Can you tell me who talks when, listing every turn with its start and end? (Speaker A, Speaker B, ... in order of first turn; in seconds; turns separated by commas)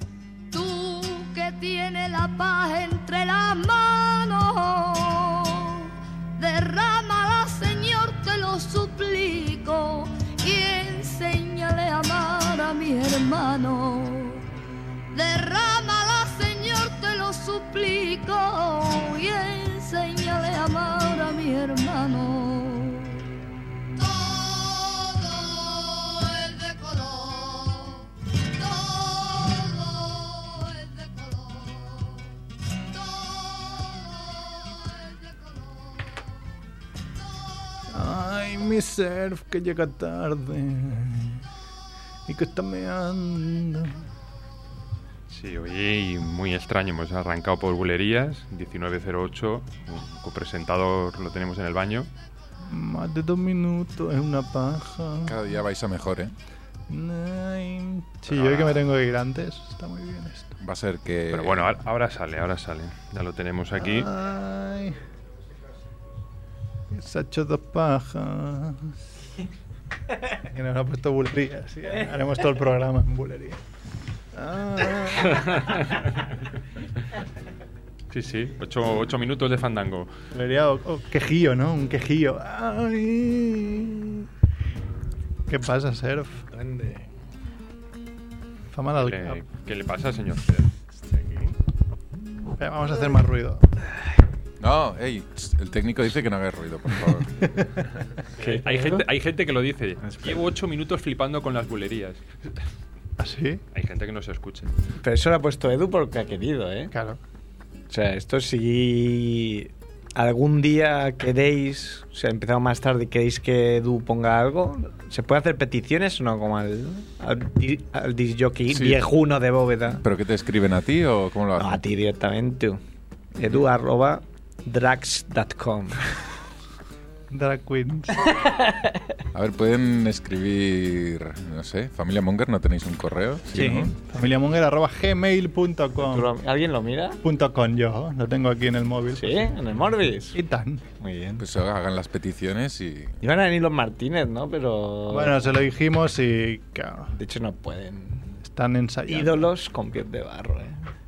Speaker A: 0.5-14.5, Speaker A: 15.1-23.2, Speaker A: 24.0-32.3, Speaker A: 32.9-36.0, Speaker B: 37.9-41.4, Speaker B: 42.3-44.0, Speaker C: 45.3-52.1, Speaker B: 52.7-55.4, Speaker D: 55.2-56.3, Speaker B: 56.9-60.6, Speaker C: 58.3-58.9, Speaker D: 60.6-61.7, Speaker C: 61.3-64.1, Speaker B: 63.8-65.0, Speaker B: 66.9-68.9, Speaker B: 70.5-73.6, Speaker B: 74.3-75.6, Speaker C: 75.3-76.0, Speaker C: 78.1-80.1, Speaker B: 80.3-84.3, Speaker B: 85.5-86.5, Speaker E: 86.6-87.0, Speaker B: 88.7-89.4, Speaker C: 89.0-90.7, Speaker B: 92.6-93.7, Speaker D: 94.6-97.3, Speaker B: 97.4-97.7, Speaker C: 98.4-102.2, Speaker E: 98.4-99.0, Speaker E: 100.0-100.4, Speaker B: 103.2-103.6, Speaker C: 103.7-104.7, Speaker E: 105.0-106.9, Speaker B: 106.9-107.2, Speaker E: 107.9-120.0, Speaker D: 118.7-119.0, Speaker D: 120.0-121.8, Speaker E: 121.6-122.8, Speaker E: 123.3-126.0, Speaker B: 127.3-128.2, Speaker E: 128.3-129.0, Speaker D: 129.3-133.9, Speaker E: 133.5-133.8, Speaker B: 133.6-136.3, Speaker E: 136.0-137.2, Speaker B: 137.2-139.3, Speaker E: 139.2-140.4, Speaker B: 140.3-140.8, Speaker E: 141.0-141.4, Speaker D: 141.4-143.2, Speaker E: 143.2-145.6, Speaker B: 145.1-147.1, Speaker E: 147.1-148.3, Speaker B: 148.4-149.5, Speaker E: 149.1-150.8